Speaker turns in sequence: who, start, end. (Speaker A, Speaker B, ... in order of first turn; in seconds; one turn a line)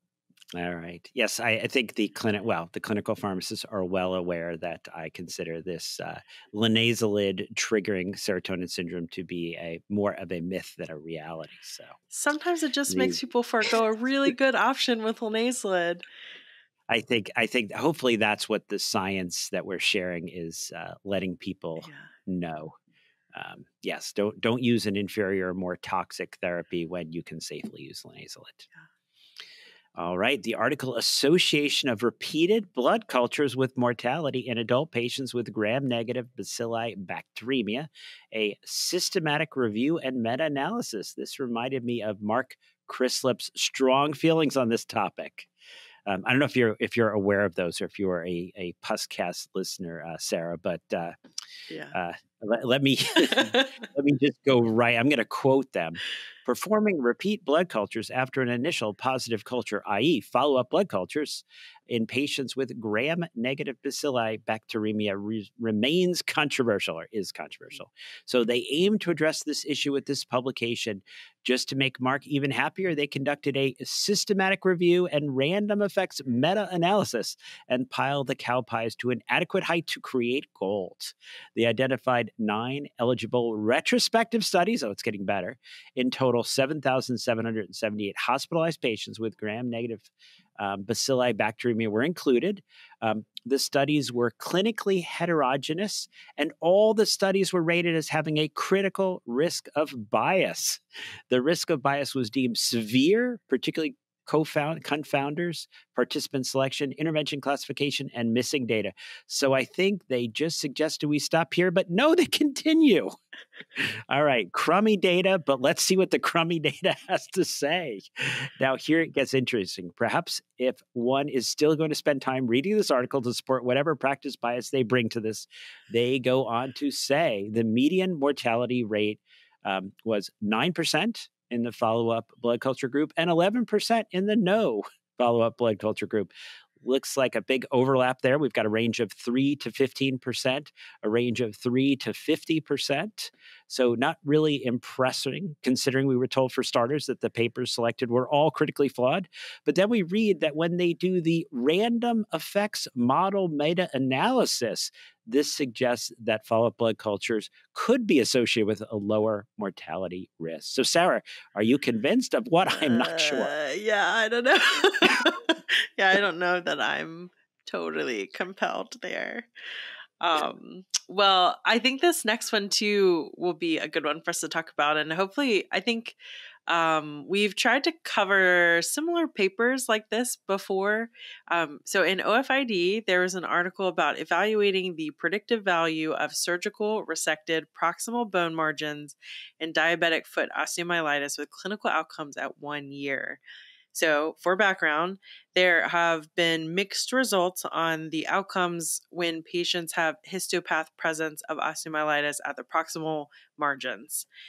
Speaker A: 0.5-12.0
Speaker B: 12.1-16.0
Speaker A: 12.9-13.2
Speaker A: 16.9-22.8
Speaker B: 21.8-22.1
Speaker A: 23.3-28.7
Speaker A: 29.9-45.5
Speaker A: 46.0-51.1
Speaker A: 51.9-113.1
Speaker B: 53.3-53.6
Speaker A: 113.8-136.3
Speaker A: 136.8-163.5
Speaker B: 162.7-169.5
Speaker B: 170.2-193.4
Speaker B: 193.9-204.3